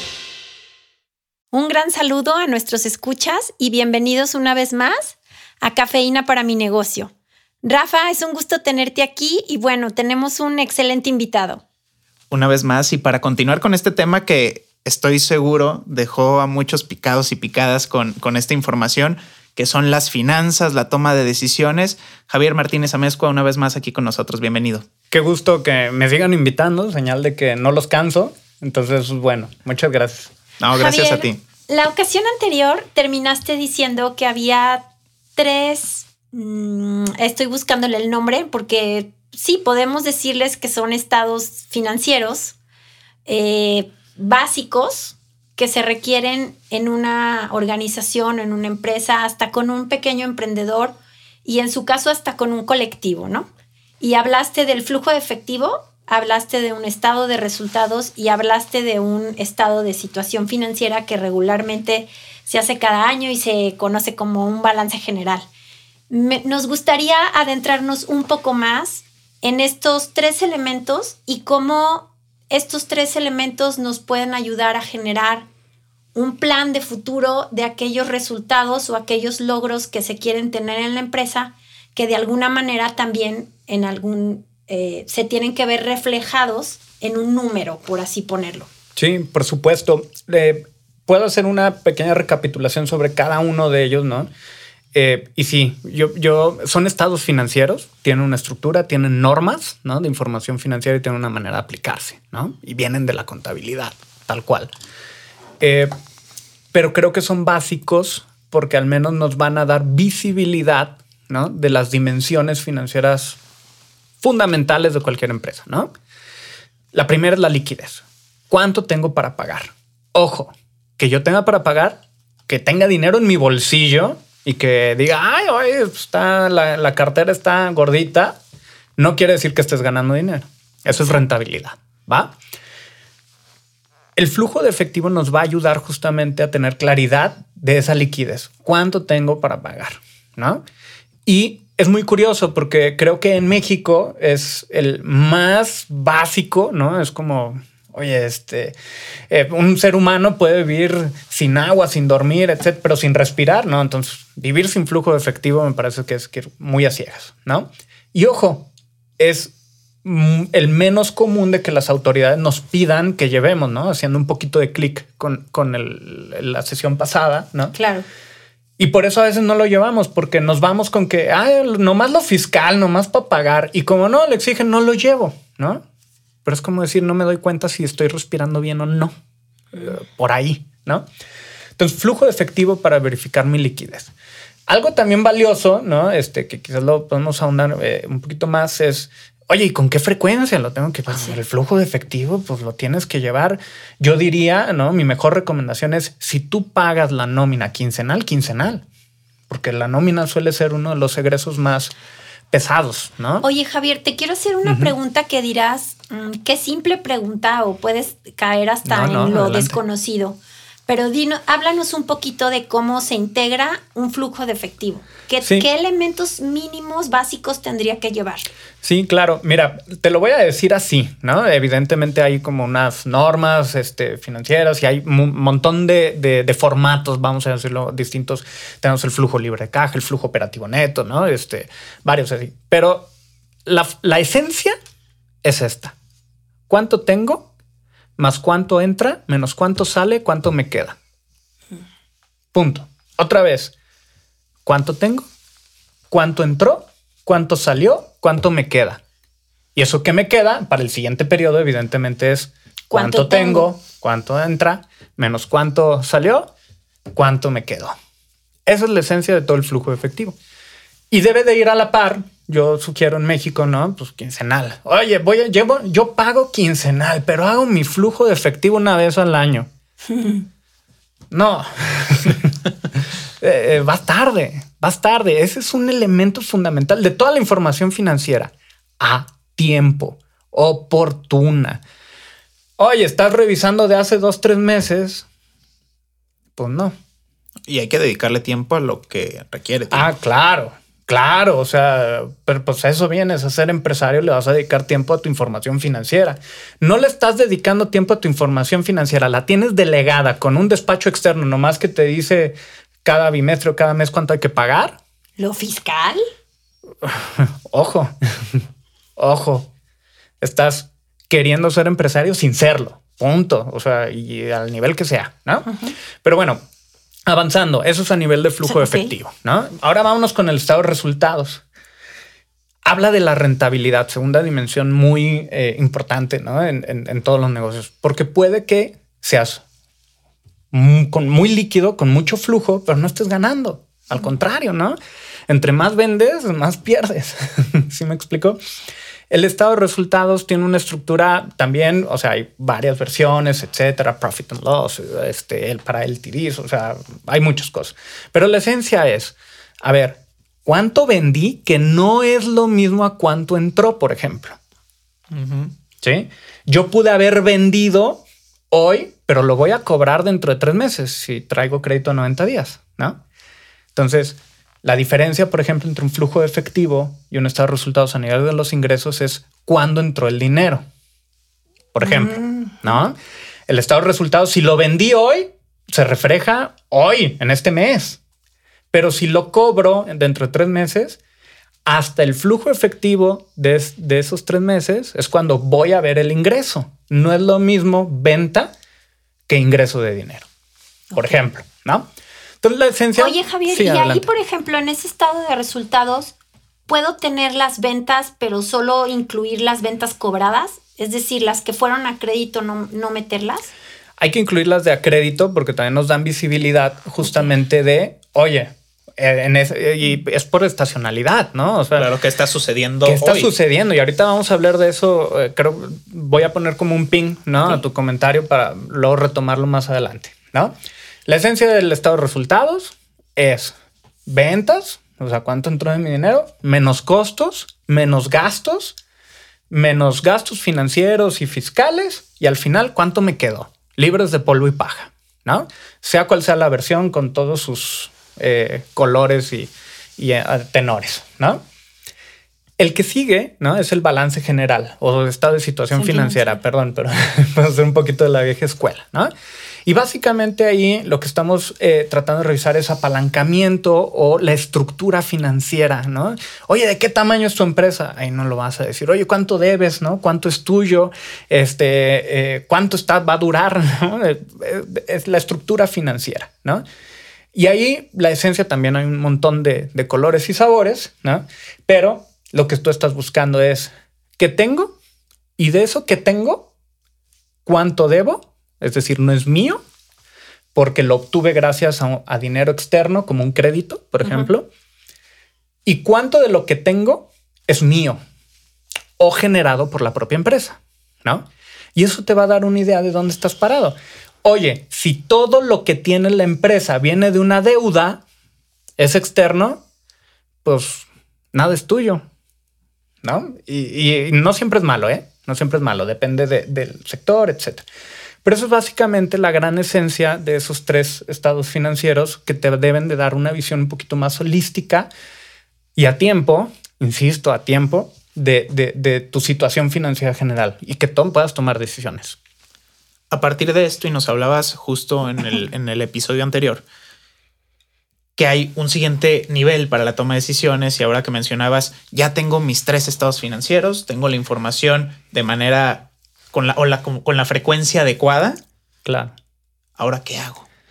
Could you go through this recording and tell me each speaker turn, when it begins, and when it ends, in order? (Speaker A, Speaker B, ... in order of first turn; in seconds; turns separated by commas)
Speaker A: 1.5-7.1, Speaker A: 7.6-11.6, Speaker B: 12.3-24.9, Speaker C: 25.1-30.3, Speaker B: 30.6-31.4, Speaker A: 30.7-42.5, Speaker A: 43.3-53.5, Speaker A: 54.0-65.5, Speaker A: 66.1-75.5, Speaker A: 76.1-88.7, Speaker C: 89.0-94.3, Speaker C: 94.9-104.7, Speaker C: 105.6-105.9, Speaker C: 106.7-113.4, Speaker C: 114.2-115.9, Speaker C: 116.9-128.4, Speaker C: 129.0-132.3, Speaker C: 134.2-140.6, Speaker C: 141.2-148.8, Speaker C: 149.3-159.5, Speaker C: 160.0-167.8, Speaker A: 167.7-168.1, Speaker C: 168.8-175.8, Speaker C: 176.4-179.1, Speaker C: 179.7-181.1, Speaker C: 181.8-184.1, Speaker C: 184.7-198.8, Speaker C: 199.5-201.9, Speaker C: 202.5-203.5, Speaker A: 203.4-218.5, Speaker C: 204.6-204.9, Speaker C: 208.8-209.8, Speaker C: 215.4-215.7, Speaker C: 218.8-233.1, Speaker C: 233.7-234.8, Speaker C: 235.4-235.9, Speaker C: 236.7-237.5, Speaker C: 238.2-241.0, Speaker C: 242.5-243.7, Speaker C: 244.7-245.2, Speaker C: 246.1-249.0, Speaker C: 249.8-256.5, Speaker A: 252.9-253.7, Speaker C: 257.1-257.9, Speaker C: 258.7-260.4, Speaker C: 261.1-269.7, Speaker C: 271.3-272.6, Speaker C: 273.4-281.8, Speaker C: 282.8-285.2, Speaker C: 286.6-286.9, Speaker B: 287.7-290.1, Speaker C: 289.9-305.0, Speaker A: 305.4-306.2, Speaker C: 307.0-308.6, Speaker C: 309.2-309.7, Speaker C: 310.4-316.6, Speaker C: 317.3-321.6, Speaker A: 318.6-319.1, Speaker C: 322.9-329.6, Speaker C: 330.7-335.0, Speaker C: 335.5-338.6, Speaker C: 339.3-354.6, Speaker B: 355.3-355.7, Speaker C: 356.0-363.2, Speaker C: 363.9-370.9, Speaker C: 371.9-373.2, Speaker A: 372.0-372.9, Speaker C: 373.7-378.2, Speaker C: 378.9-381.2, Speaker C: 381.9-388.7, Speaker C: 389.5-390.5, Speaker C: 391.1-392.1, Speaker C: 392.6-394.3, Speaker A: 393.2-396.3, Speaker A: 396.9-403.7, Speaker C: 404.2-412.1, Speaker B: 412.0-413.5, Speaker C: 413.0-420.7, Speaker C: 421.3-423.8, Speaker C: 424.3-428.9, Speaker C: 429.7-441.6, Speaker C: 442.8-449.3, Speaker A: 445.9-446.6, Speaker C: 449.9-466.8, Speaker C: 467.5-474.9, Speaker C: 475.6-476.7, Speaker C: 477.6-479.8, Speaker C: 480.7-484.7, Speaker A: 484.2-484.5, Speaker C: 485.9-488.2, Speaker C: 489.2-498.2, Speaker C: 499.0-499.8, Speaker C: 500.6-502.2, Speaker C: 503.2-507.9, Speaker C: 508.4-515.1, Speaker C: 516.0-522.4, Speaker B: 523.3-526.9, Speaker B: 528.4-538.6, Speaker C: 539.0-539.3, Speaker B: 540.0-540.7